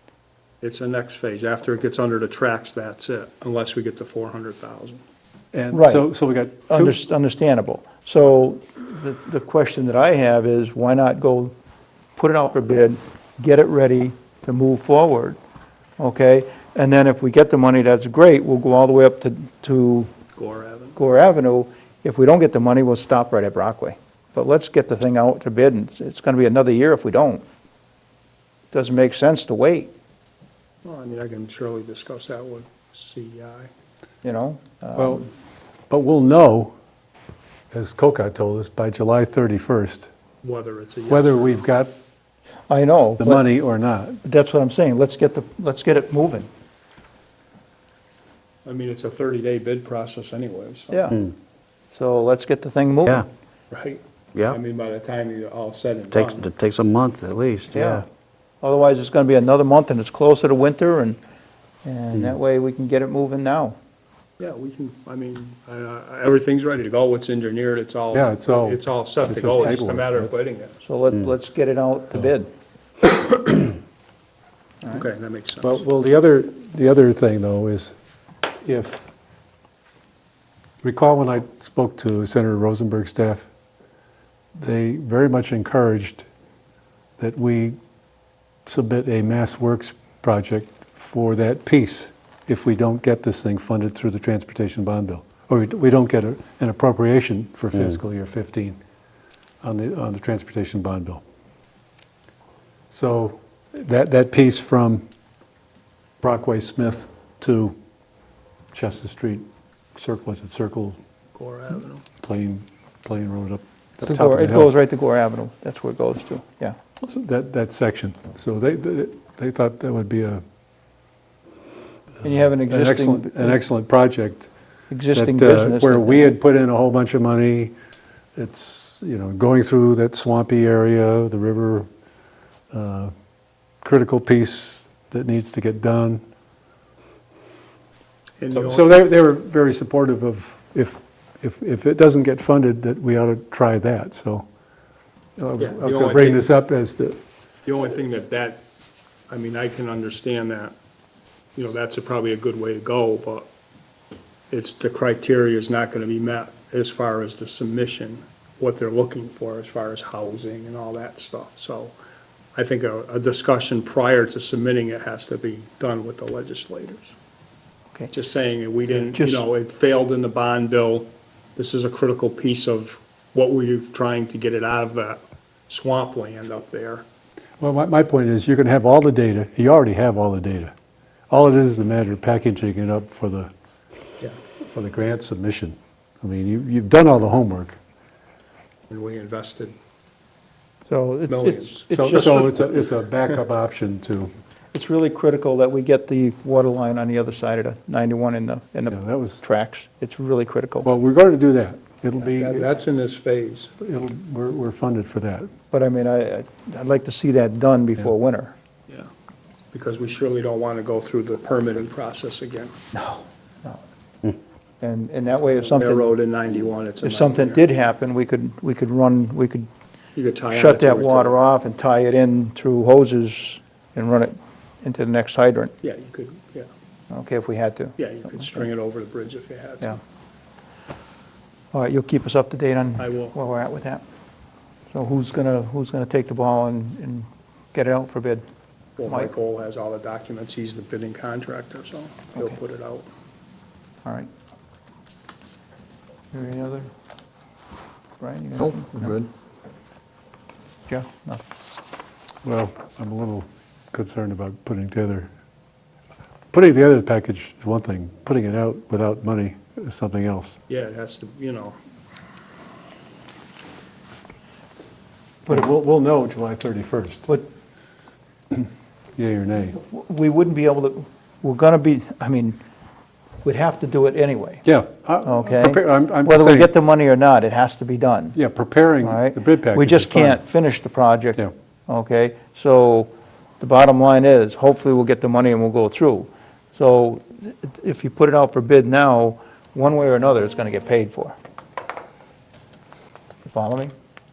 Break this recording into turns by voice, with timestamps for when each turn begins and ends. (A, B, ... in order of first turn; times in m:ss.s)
0:00.6-0:05.0 A
0:05.5-0:07.0 B
0:05.7-0:06.1 C
0:06.7-0:11.5 C
0:12.2-0:15.4 C
0:16.0-0:20.1 C
0:20.4-0:21.0 A
0:21.0-0:27.4 C
0:28.7-0:29.9 C
0:30.8-0:33.7 A
0:34.2-0:35.3 C
0:35.0-0:35.3 B
0:35.9-0:36.8 B
0:37.7-0:40.1 B
0:40.4-0:41.5 A
0:41.1-0:41.9 B
0:42.7-0:43.5 C
0:43.2-0:44.2 B
0:44.2-0:46.5 C
0:48.7-0:51.0 A
0:50.9-0:51.2 C
0:51.9-0:53.2 C
0:53.7-0:56.5 A
0:56.1-0:58.0 D
0:57.7-0:58.0 C
0:58.6-1:01.2 C
1:01.8-1:03.8 C
1:04.4-1:10.8 A
1:08.1-1:10.4 B
1:10.8-1:12.5 C
1:14.9-1:15.8 A
1:15.6-1:18.0 B
1:18.6-1:19.0 B
1:20.8-1:23.5 B
1:24.6-1:26.3 B
1:27.2-1:27.8 B
1:28.7-1:38.8 B
1:39.6-1:41.2 B
1:42.9-1:45.0 B
1:46.2-1:47.8 B
1:48.7-1:51.0 B
1:51.4-1:52.0 A
1:52.2-1:54.7 B
1:54.0-1:56.8 C
1:57.0-2:00.4 B
2:02.2-2:03.6 C
2:02.2-2:04.5 B
2:04.9-2:06.4 C
2:05.1-2:07.7 B
2:08.4-2:11.9 B
2:12.7-2:13.1 B
2:13.8-2:16.2 B
2:18.4-2:19.0 A
2:18.5-2:24.5 B
2:25.4-2:27.2 B
2:25.6-2:26.4 A
2:27.7-2:28.6 A
2:29.3-2:30.8 A
2:31.6-2:33.5 A
2:34.5-2:41.9 A
2:42.6-2:47.1 A
2:48.1-2:57.0 A
2:48.9-2:49.4 C
2:57.6-3:00.7 B
3:01.3-3:03.5 B
3:04.6-3:07.8 B
3:08.9-3:09.7 A
3:10.9-3:12.5 C
3:11.3-3:12.7 A
3:11.9-3:14.3 B
3:14.7-3:20.9 C
3:18.9-3:19.4 B
3:20.8-3:22.7 B
3:22.2-3:23.7 A
3:23.8-3:25.5 B
3:25.7-3:28.5 C
3:29.7-3:32.8 A
3:32.9-3:33.8 C
3:34.8-3:36.2 C
3:35.8-3:37.6 A
3:37.0-3:39.7 C
3:40.2-3:41.4 A
3:40.5-3:45.7 C
3:45.8-3:46.7 A
3:47.1-3:48.7 C
3:48.0-3:50.0 A
3:51.7-3:54.0 C
3:53.0-3:53.3 A
3:54.9-3:58.4 C
3:59.0-4:03.1 A
3:59.0-3:59.3 C
4:06.3-4:06.9 C
4:08.2-4:09.2 C
4:08.6-4:09.3 D
4:10.9-4:11.4 C
4:12.4-4:15.3 B
4:16.5-4:20.6 B
4:20.7-4:21.8 A
4:25.5-4:27.3 B
4:28.5-4:29.8 B
4:29.9-4:32.6 C
4:33.4-4:34.6 C
4:34.6-4:36.7 B
4:35.2-4:38.4 C
4:38.4-4:40.4 B
4:39.0-4:51.4 C
4:53.4-4:53.9 C